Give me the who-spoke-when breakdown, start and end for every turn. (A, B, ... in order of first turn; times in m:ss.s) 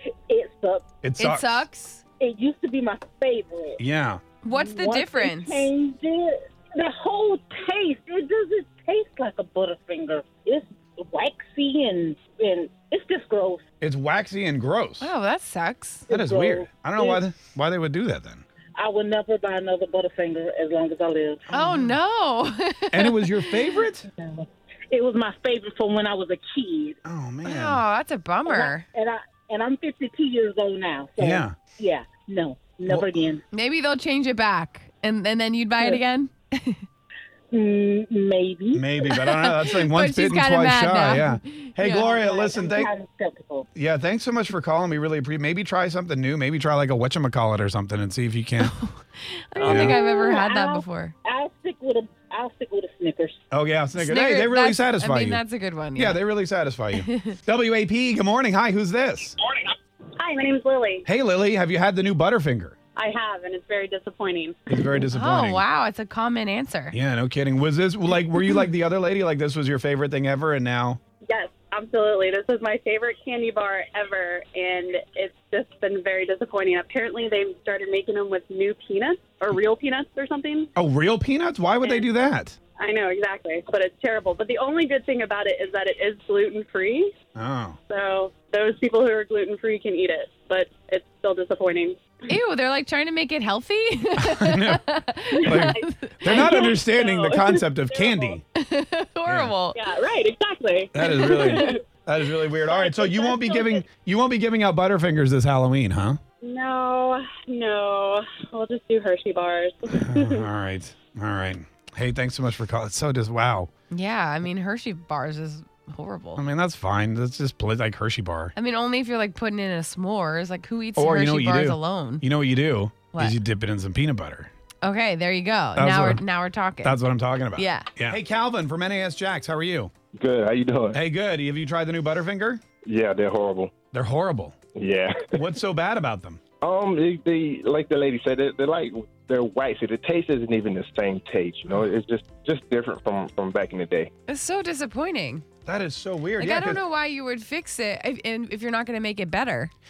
0:00.3-0:00.8 A
0:01.0-0:01.7 B
0:01.2-0:02.0 C
0:02.2-0:03.8 A
0:03.8-0:04.2 B
0:04.4-0:05.7 C
0:04.5-0:13.6 A
0:13.8-0:15.1 B
0:15.0-0:16.0 C
0:16.1-0:17.2 A
0:16.1-0:18.4 B
0:18.8-0:21.4 A
0:21.5-0:21.9 B
0:21.5-0:23.5 C
0:22.9-0:24.1 B
0:24.2-0:27.0 A
0:27.0-0:27.8 B
0:27.4-0:28.8 C
0:28.5-0:33.4 A
0:31.2-0:31.6 B
0:32.8-0:33.2 B
0:33.5-0:36.8 C
0:37.5-0:38.8 A
0:38.7-0:42.9 B
0:39.1-0:42.1 C
0:41.9-0:43.6 A
0:43.7-0:48.8 B
0:48.6-0:51.1 C
0:49.6-0:53.4 A
0:49.6-0:50.0 B
0:53.5-0:55.4 B
0:54.0-0:56.2 C
0:56.0-0:59.4 B
0:57.0-0:57.3 C
1:00.2-1:01.0 D
1:01.1-1:02.8 B
1:03.0-1:04.7 D
1:04.7-1:05.6 B
1:05.1-1:07.0 C
1:06.9-1:11.0 B
1:11.3-1:20.7 D
1:20.8-1:22.6 B
1:22.8-1:27.1 D
1:27.4-1:27.8 B
1:27.9-1:32.0 D
1:32.3-1:36.8 C
1:34.2-1:34.9 B
1:35.4-1:38.4 D
1:35.4-1:38.4 B
1:38.6-1:39.8 C
1:39.2-1:39.5 B
1:39.7-1:41.8 D
1:40.9-1:46.2 B
1:41.2-1:41.6 C
1:42.7-1:43.8 D
1:46.4-1:50.4 D
1:49.9-1:53.7 B
1:53.9-1:56.4 C
1:56.4-1:58.5 B
1:58.6-2:02.2 C
2:01.0-2:04.5 B
2:04.8-2:07.0 C
2:05.8-2:06.2 B
2:06.8-2:09.9 B
2:07.5-2:07.9 C
2:10.2-2:11.0 E
2:10.9-2:12.6 B
2:12.8-2:13.7 E
2:13.9-2:14.6 B
2:14.8-2:15.3 E
2:15.3-2:16.4 B
2:16.6-2:24.1 E
2:24.3-2:25.4 C
2:25.6-2:26.8 B
2:26.4-2:29.7 C